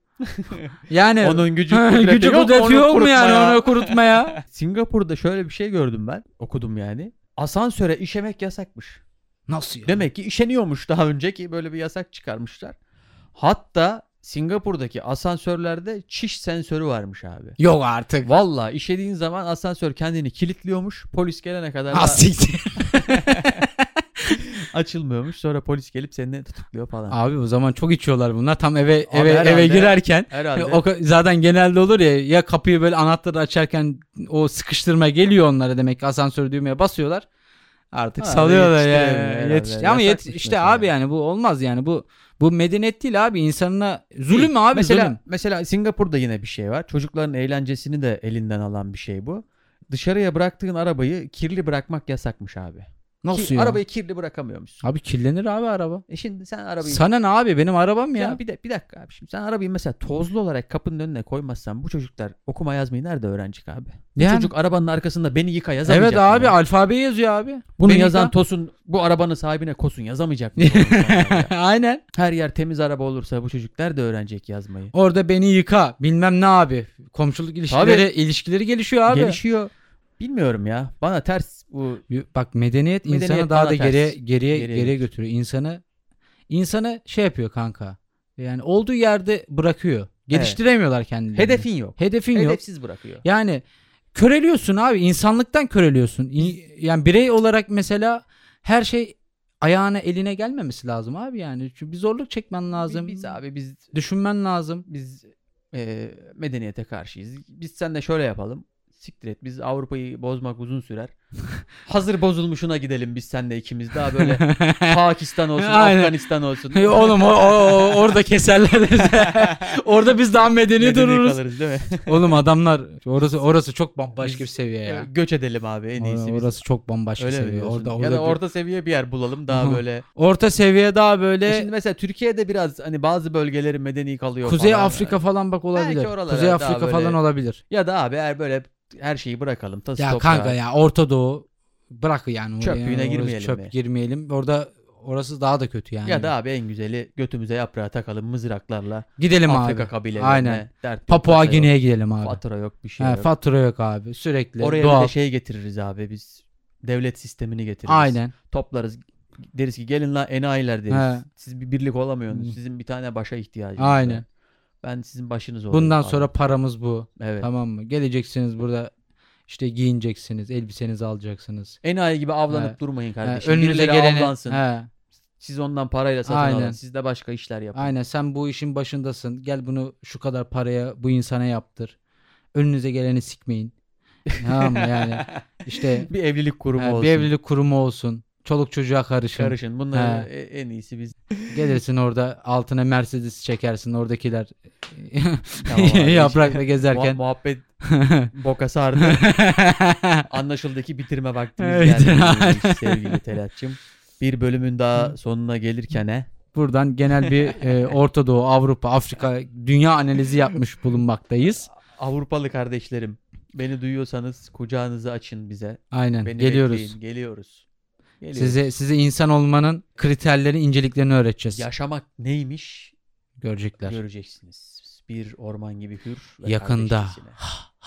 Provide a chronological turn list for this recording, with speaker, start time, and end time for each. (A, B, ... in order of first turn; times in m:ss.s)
0:00.3-0:00.6 A
0:00.9-0:04.3 B
0:01.2-0:09.0 A
0:09.5-0:10.0 B
0:09.8-0:12.7 A
0:13.4-0:17.6 A
0:17.6-0:18.3 B
0:18.2-0:22.3 A
0:21.9-0:23.7 B
0:23.1-0:23.5 A
0:24.6-0:27.2 A
0:27.1-0:37.2 B
0:29.1-0:30.8 A
0:37.9-0:45.2 B
0:38.2-0:40.9 A
0:44.3-0:54.8 A
0:53.2-0:53.8 B
0:54.8-0:56.0 B
0:56.1-0:57.0 A
0:56.8-0:58.4 B
0:58.2-1:06.6 A
1:04.2-1:04.5 B
1:05.8-1:08.3 B
1:07.8-1:11.5 A
1:10.6-1:12.0 B
1:12.1-1:14.9 A
1:14.9-1:19.4 B
1:17.7-1:18.1 A
1:19.1-1:22.0 A
1:22.1-1:25.8 B
1:23.1-1:25.0 A
1:26.5-1:32.6 B
1:30.3-1:30.6 A
1:31.3-1:33.2 A
1:33.2-1:33.6 B
1:34.1-1:43.3 B
1:42.8-1:43.9 A
1:43.9-1:44.8 B
1:44.9-1:51.1 A
1:51.8-1:58.1 A
1:54.2-1:55.0 B
1:55.6-1:56.2 B
1:56.7-2:01.4 B
1:59.2-1:59.7 A
2:00.8-2:02.4 A
2:02.0-2:05.1 B
2:04.2-2:06.6 A
2:06.0-2:08.4 B
2:07.2-2:10.0 A
2:09.5-2:11.7 B
2:11.4-2:15.2 A
2:14.4-2:17.6 B
2:15.7-2:17.2 A
2:17.7-2:20.6 A
2:20.0-2:26.3 B
2:22.6-2:23.7 A
2:26.0-2:33.3 A
2:29.2-2:32.4 B
2:33.0-2:35.1 B
2:34.6-2:44.2 A
2:37.8-2:38.3 B
2:40.9-2:41.2 B
2:42.3-2:42.6 B
2:43.8-2:44.2 B
2:44.8-2:46.3 A
2:45.7-2:48.9 B
2:47.2-2:47.5 A
2:49.5-2:51.8 B
2:51.8-2:54.6 A
2:52.5-2:54.9 B
2:55.4-2:57.9 A
2:56.2-2:56.8 B
2:57.7-3:02.0 B
3:02.5-3:03.7 B
3:04.3-3:07.3 A
3:04.4-3:06.1 B
3:06.8-3:10.3 B
3:09.3-3:11.8 A
3:11.5-3:17.2 B
3:15.6-3:17.6 A
3:17.8-3:18.3 B
3:18.3-3:19.4 A
3:19.0-3:20.2 B
3:20.3-3:26.3 A
3:21.6-3:23.2 B
3:26.5-3:31.7 B
3:27.2-3:27.9 A
3:31.7-3:37.6 A
3:35.9-3:36.9 B
3:38.2-3:38.7 A
3:38.3-3:41.6 B
3:41.5-3:42.9 A
3:43.4-3:44.0 B
3:43.8-3:47.4 A
3:46.4-3:47.2 B